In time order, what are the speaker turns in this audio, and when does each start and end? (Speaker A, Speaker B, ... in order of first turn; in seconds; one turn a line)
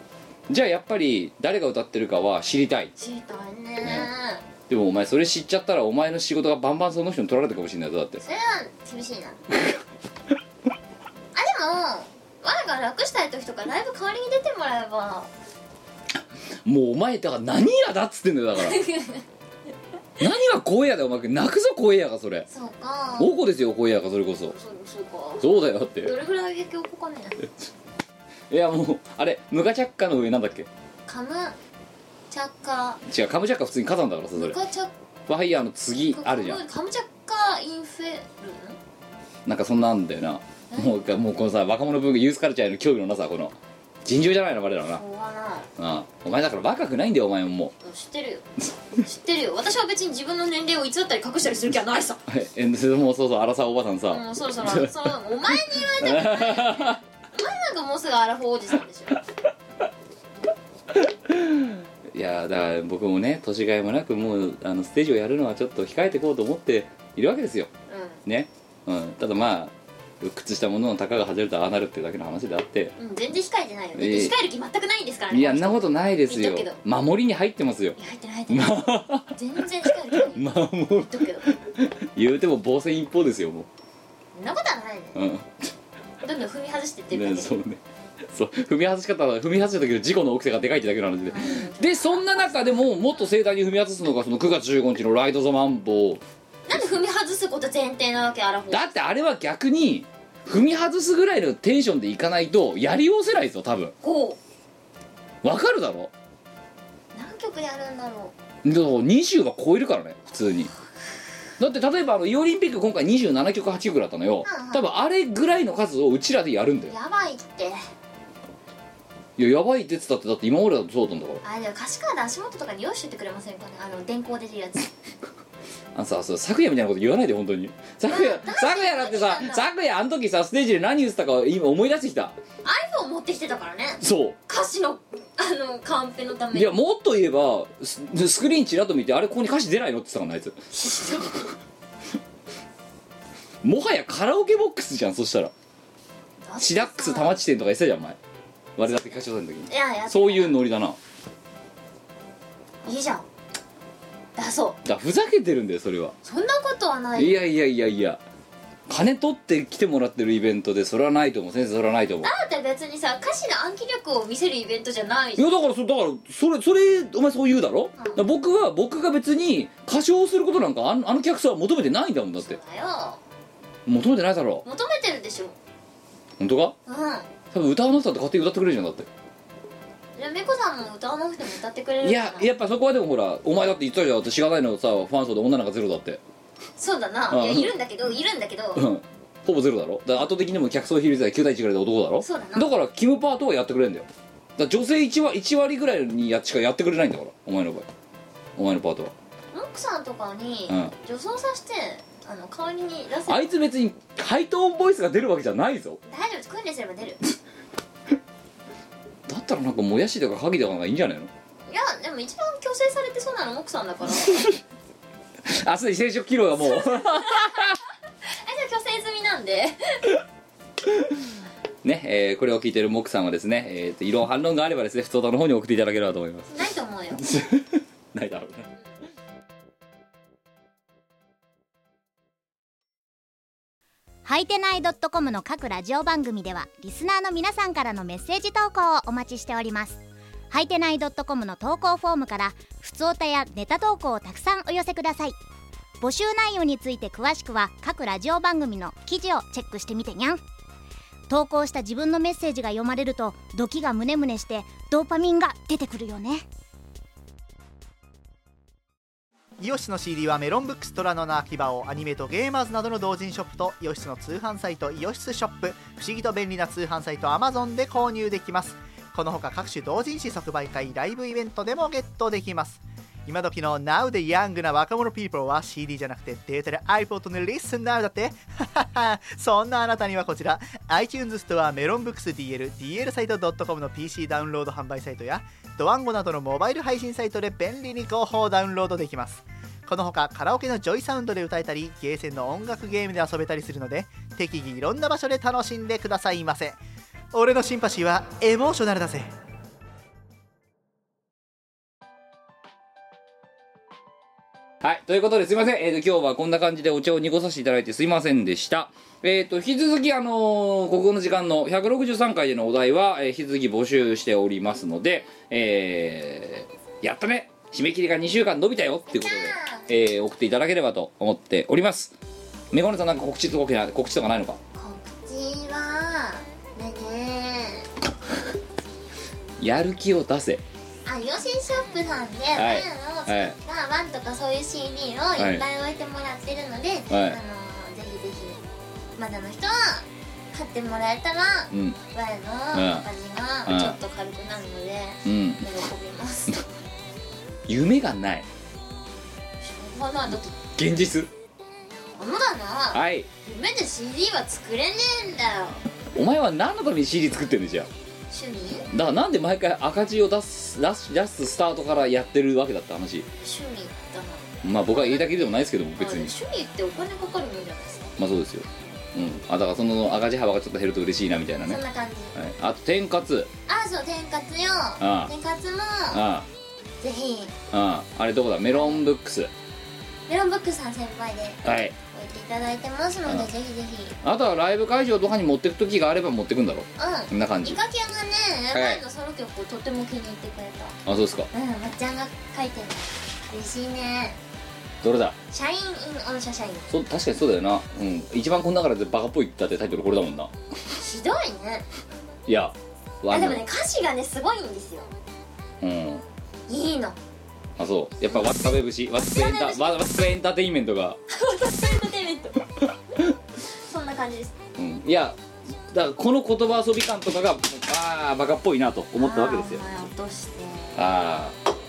Speaker A: 0.5-2.9
Speaker B: 3.0-4.4
Speaker A: 3.8-4.1
Speaker A: 4.7-8.2
Speaker B: 8.2-9.4
Speaker B: 11.3-15.3
Speaker A: 16.2-18.8
Speaker B: 18.6-19.3
Speaker A: 20.2-22.5
Speaker B: 22.5-23.4
Speaker A: 23.2-24.5
Speaker B: 24.4-27.5
Speaker A: 25.4-26.1
Speaker A: 28.5-30.7
Speaker B: 31.1-31.6
Speaker B: 32.3-33.0
Speaker A: 33.0-34.6
Speaker B: 34.4-34.9
Speaker A: 35.3-36.6
Speaker B: 36.1-38.8
Speaker A: 39.5-45.0
Speaker B: 40.7-41.1
Speaker B: 45.0-45.7
Speaker A: 45.8-47.7
Speaker B: 47.8-48.5
Speaker B: 49.0-52.2
Speaker A: 52.3-54.9
Speaker B: 54.1-59.2
Speaker A: 56.0-57.0
Speaker A: 60.9-67.7
Speaker B: 67.9-68.2
Speaker A: 68.2-72.9
Speaker B: 73.0-76.8
Speaker A: 74.0-74.4
Speaker A: 75.3-78.0
Speaker B: 78.0-81.5
Speaker A: 78.5-79.3
Speaker A: 79.9-83.7
Speaker B: 84.3-85.2
Speaker A: 85.2-85.7
Speaker B: 86.2-87.6
Speaker A: 87.1-96.8
Speaker B: 91.3-93.3
Speaker B: 96.7-98.9
Speaker A: 98.7-104.0
Speaker B: 104.0-104.4
Speaker A: 105.4-106.1
Speaker B: 107.1-108.3
Speaker A: 108.6-110.7
Speaker A: 111.6-117.0
Speaker B: 114.4-114.9
Speaker B: 116.9-117.8
Speaker A: 119.4-121.4
Speaker B: 121.4-124.9
Speaker A: 126.0-132.3
Speaker B: 128.1-129.7
Speaker B: 132.6-136.7
Speaker A: 134.0-134.4
Speaker A: 136.5-140.6
Speaker B: 140.7-141.4
Speaker A: 143.6-145.5
Speaker B: 146.5-147.4
Speaker A: 146.6-148.2
Speaker A: 148.8-151.0
Speaker B: 149.7-150.6
Speaker B: 152.8-153.2
Speaker B: 154.4-154.8
Speaker A: 154.8-156.2
Speaker B: 156.2-157.4
Speaker A: 157.2-158.2
Speaker A: 158.9-162.3
Speaker B: 162.2-165.5
Speaker A: 165.4-172.6
Speaker B: 168.0-168.2
Speaker B: 172.4-173.2
Speaker A: 173.9-174.6
Speaker B: 174.7-175.6
Speaker A: 176.4-176.8
Speaker B: 176.9-177.3
Speaker A: 177.5-179.1
Speaker B: 180.2-182.5
Speaker A: 182.0-186.2
Speaker B: 186.8-188.9
Speaker A: 187.3-187.7
Speaker A: 188.8-197.9
Speaker B: 192.2-192.7
Speaker A: 198.6-199.1
Speaker B: 199.5-203.6
Speaker A: 203.3-206.0
Speaker B: 206.1-207.2
Speaker A: 209.3-211.3
Speaker B: 211.7-214.6
Speaker A: 214.3-214.6
Speaker A: 215.4-217.8
Speaker B: 216.6-217.7
Speaker B: 218.3-220.2
Speaker A: 220.9-221.1
Speaker A: 221.8-226.5
Speaker B: 226.5-227.3
Speaker A: 227.2-228.7
Speaker C: 234.2-245.4
Speaker C: 246.0-250.4
Speaker C: 251.3-256.5
Speaker D: 259.6-296.8
Speaker D: 297.3-299.3
Speaker A: 304.8-322.1
Speaker B: 319.1-319.9
Speaker A: 322.7-324.6
Speaker B: 324.8-327.9
Speaker A: 329.6-330.6
Speaker B: 331.1-338.6
Speaker A: 332.6-333.6
Speaker A: 335.4-335.6
Speaker A: 337.1-337.4
Speaker B: 339.2-346.6
Speaker A: 341.7-342.0
Speaker A: 342.7-343.1
Speaker A: 343.7-344.0
Speaker A: 345.2-345.6
Speaker A: 347.7-348.5
Speaker B: 349.6-350.6
Speaker A: 350.8-351.3
Speaker B: 352.2-355.9
Speaker A: 352.9-353.3
Speaker A: 356.1-357.9
Speaker B: 358.3-358.9
Speaker A: 358.9-363.3
Speaker B: 363.4-365.3
Speaker A: 364.6-366.3
Speaker B: 366.0-368.1
Speaker A: 368.2-371.8
Speaker B: 371.7-372.4
Speaker A: 372.4-373.5
Speaker B: 373.7-376.2
Speaker A: 375.0-375.3
Speaker A: 376.1-376.5
Speaker B: 377.0-377.6
Speaker A: 377.7-379.5
Speaker B: 378.7-379.0
Speaker B: 380.3-384.2
Speaker A: 381.6-381.9
Speaker A: 384.2-387.8
Speaker B: 387.0-391.0
Speaker A: 388.7-389.0
Speaker A: 391.1-391.5
Speaker B: 391.5-394.4
Speaker A: 395.0-395.4
Speaker B: 395.5-396.9
Speaker A: 396.9-400.5
Speaker B: 400.9-401.9
Speaker A: 402.5-403.6
Speaker B: 403.3-405.1
Speaker A: 405.8-406.2
Speaker B: 406.7-407.2
Speaker A: 407.8-411.2
Speaker B: 408.3-410.2
Speaker B: 411.3-412.6
Speaker B: 413.7-414.6
Speaker A: 414.8-415.4
Speaker A: 415.9-419.9
Speaker B: 419.2-421.1
Speaker A: 421.0-421.6